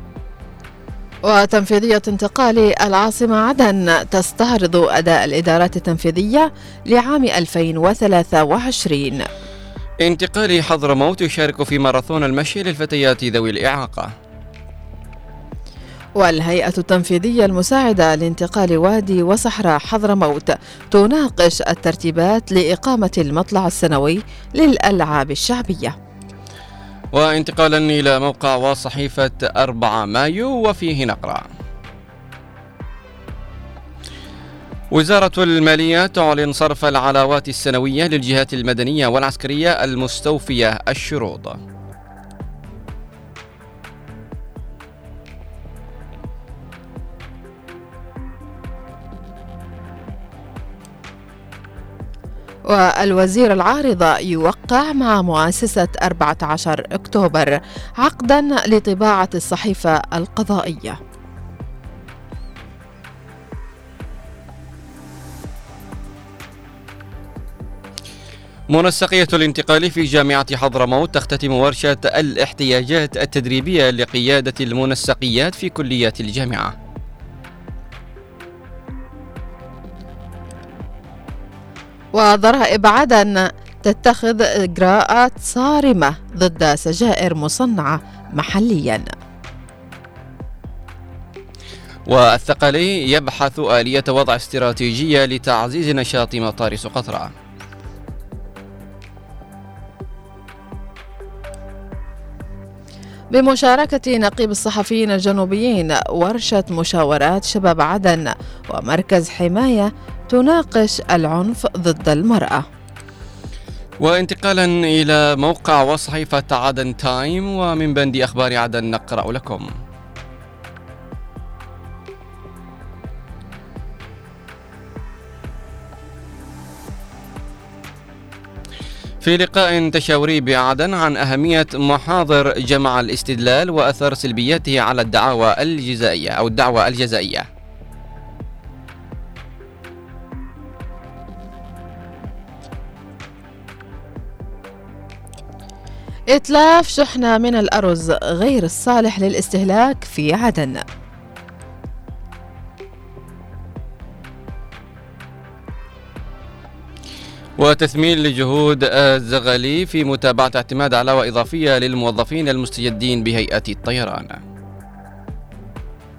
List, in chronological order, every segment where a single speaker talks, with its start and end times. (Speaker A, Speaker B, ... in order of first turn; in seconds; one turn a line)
Speaker A: 1.3-9.3
Speaker B: 10.0-14.1
Speaker A: 16.2-25.9
Speaker B: 27.1-31.5
Speaker B: 34.9-41.6
Speaker A: 52.7-61.0
Speaker B: 68.7-76.8
Speaker A: 82.2-89.1
Speaker B: 92.1-97.3
Speaker A: 103.3-112.6
Speaker B: 114.0-119.7
Speaker B: 129.2-137.5
Speaker A: 146.3-150.8
Speaker B: 157.6-164.4